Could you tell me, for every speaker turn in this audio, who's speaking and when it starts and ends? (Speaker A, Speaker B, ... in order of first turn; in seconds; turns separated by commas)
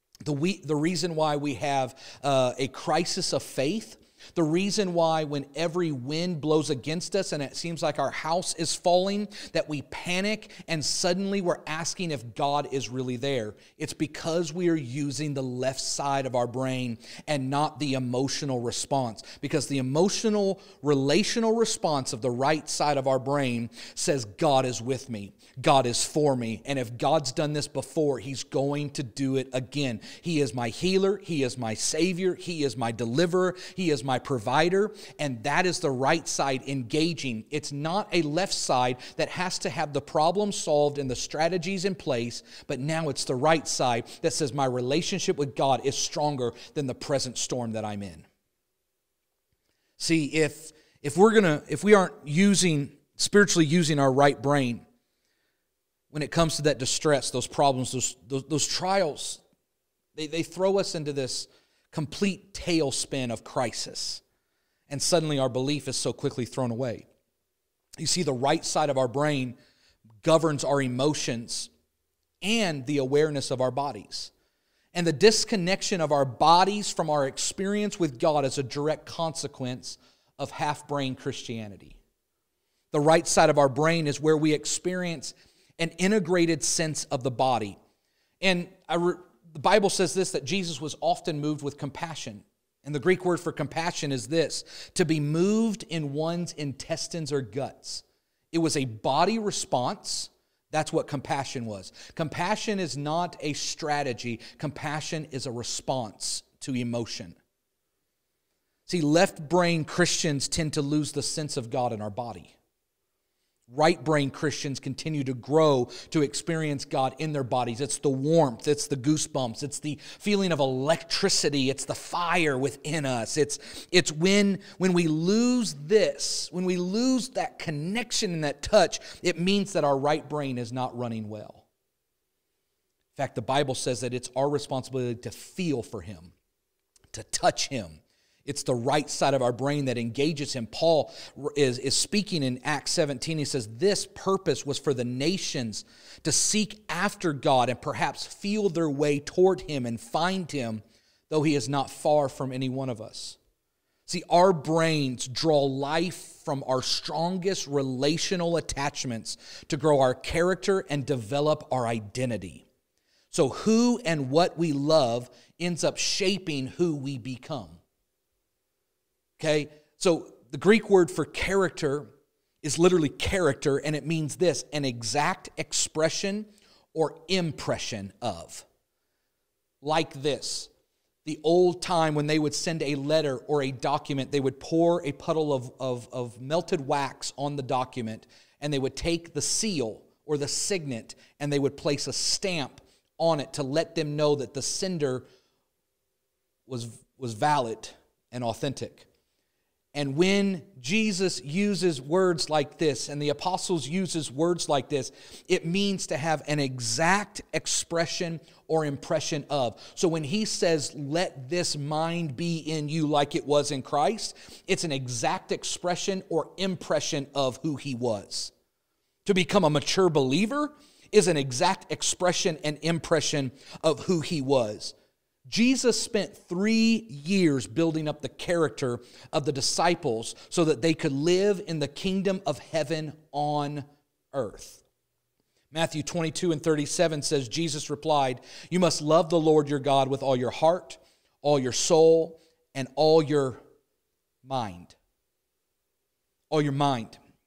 Speaker A: 0.2-48.3, Speaker A: 50.0-54.8, Speaker A: 56.1-59.4, Speaker A: 60.1-64.2, Speaker A: 64.9-67.1, Speaker A: 68.0-69.6, Speaker A: 70.2-71.7, Speaker A: 72.4-74.3, Speaker A: 74.9-82.0, Speaker A: 82.9-87.8, Speaker A: 88.4-107.4, Speaker A: 108.9-112.5, Speaker A: 113.7-131.6, Speaker A: 133.2-136.3, Speaker A: 137.1-153.4, Speaker A: 154.1-162.6, Speaker A: 163.3-167.8, Speaker A: 169.4-172.1, Speaker A: 172.6-178.7, Speaker A: 179.8-180.7, Speaker A: 181.2-195.3, Speaker A: 196.7-199.1, Speaker A: 199.9-218.5, Speaker A: 219.2-224.9, Speaker A: 225.5-234.8, Speaker A: 235.7-243.6, Speaker A: 244.4-244.9, Speaker A: 246.5-247.2